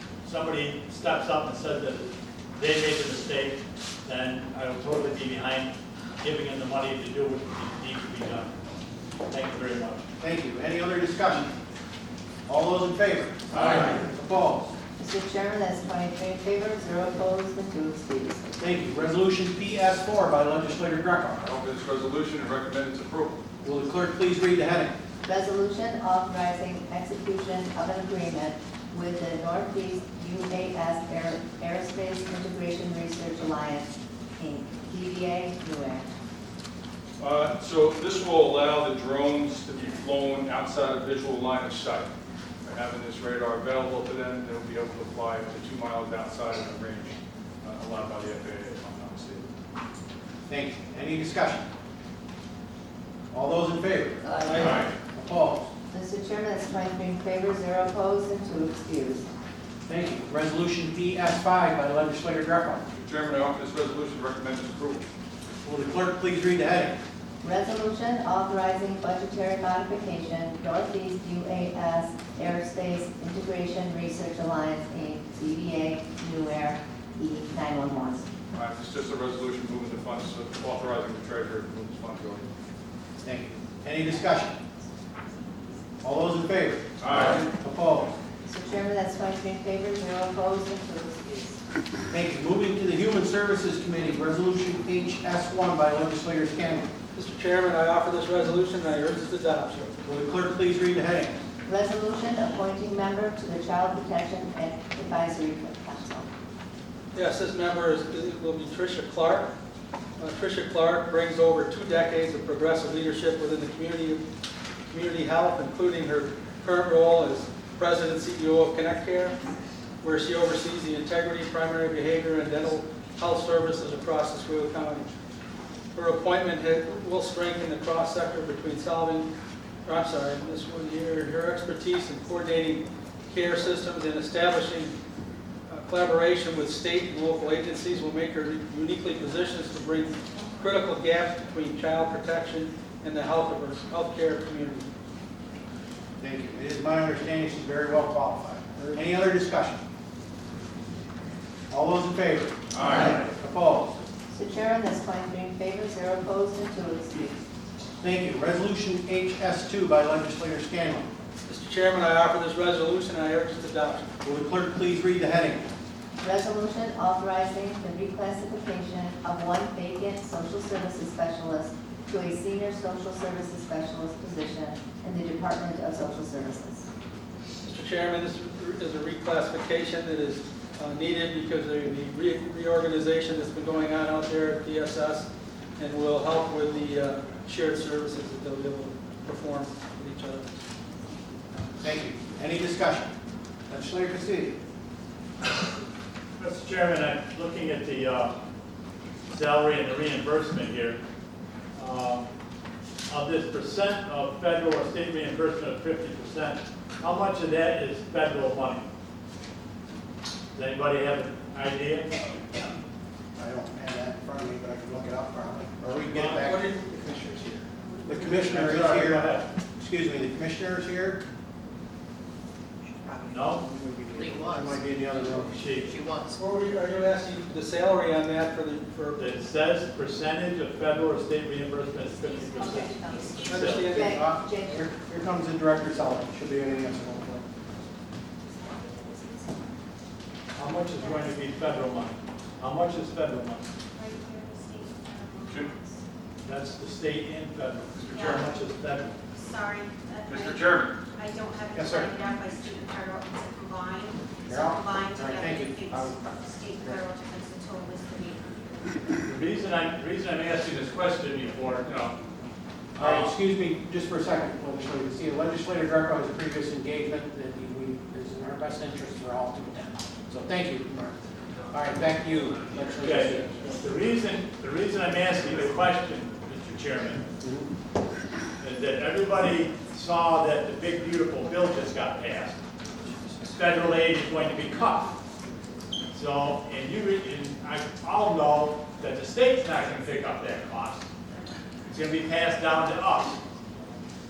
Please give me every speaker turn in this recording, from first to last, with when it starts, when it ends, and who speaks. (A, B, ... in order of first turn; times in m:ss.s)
0:00.2-0:08.5 A
0:09.3-0:10.0 A
0:10.2-0:11.5 B
0:12.5-0:14.7 B
0:13.6-0:13.8 A
0:15.0-0:18.4 C
0:18.6-0:21.4 B
0:21.4-0:23.4 D
0:23.6-0:24.9 B
0:25.2-0:36.1 C
0:37.2-0:42.1 D
0:42.6-0:49.5 D
0:50.5-0:51.6 B
0:53.3-0:55.7 B
0:54.2-0:54.8 E
0:54.5-0:54.9 D
0:55.9-0:59.2 C
0:59.9-1:02.8 B
1:03.0-1:05.0 D
1:05.6-1:07.0 B
1:07.4-1:18.3 C
1:18.5-1:22.5 D
1:23.2-1:24.6 B
1:26.0-1:28.1 B
1:27.0-1:27.4 D
1:28.4-1:31.6 C
1:32.1-1:36.8 B
1:37.1-1:39.9 F
1:40.0-1:41.3 B
1:41.6-1:46.3 C
1:47.1-1:49.5 F
1:50.2-1:54.2 F
1:54.9-1:59.4 F
2:00.0-2:05.1 F
2:05.9-2:09.3 F
2:09.8-2:14.9 F
2:15.7-2:24.9 F
2:26.2-2:29.8 B
2:31.7-2:33.9 B
2:32.7-2:33.2 D
2:34.3-2:37.4 C
2:38.0-2:41.1 B
2:41.5-2:44.1 F
2:44.2-2:45.6 B
2:46.2-2:56.8 C
2:57.6-3:05.3 F
3:05.8-3:10.4 F
3:11.8-3:13.1 B
3:13.7-3:14.6 B
3:16.4-3:18.3 A
3:19.3-3:21.0 A
3:21.8-3:22.3 A
3:23.1-3:28.9 A
3:30.5-3:32.2 A
3:33.4-3:41.2 B
3:36.1-3:37.4 F
3:38.1-3:39.5 A
3:43.0-3:46.4 E
3:43.3-3:43.6 A
3:43.7-3:45.5 B
3:45.4-3:46.0 A
3:46.3-3:49.2 F
3:49.2-3:53.9 A
3:52.2-3:53.7 G
3:53.4-3:54.2 F
3:53.8-3:54.8 C
3:53.9-3:57.4 B
3:58.5-3:59.6 G
4:00.6-4:03.7 A
4:01.0-4:01.4 G
4:03.9-4:06.0 G
4:05.5-4:05.7 D
4:06.4-4:09.2 A
4:08.0-4:08.3 D
4:08.1-4:08.5 G
4:09.3-4:19.0 G
4:10.2-4:11.0 D
4:11.7-4:12.2 B
4:14.5-4:17.0 B
4:19.2-4:22.2 A
4:23.0-4:23.3 A
4:23.0-4:31.2 B
4:31.7-4:33.8 B
4:33.0-4:37.2 A
4:37.4-4:37.7 B
4:38.6-4:42.6 A
4:43.4-4:45.1 A
4:46.1-4:51.0 A
4:51.8-4:53.4 A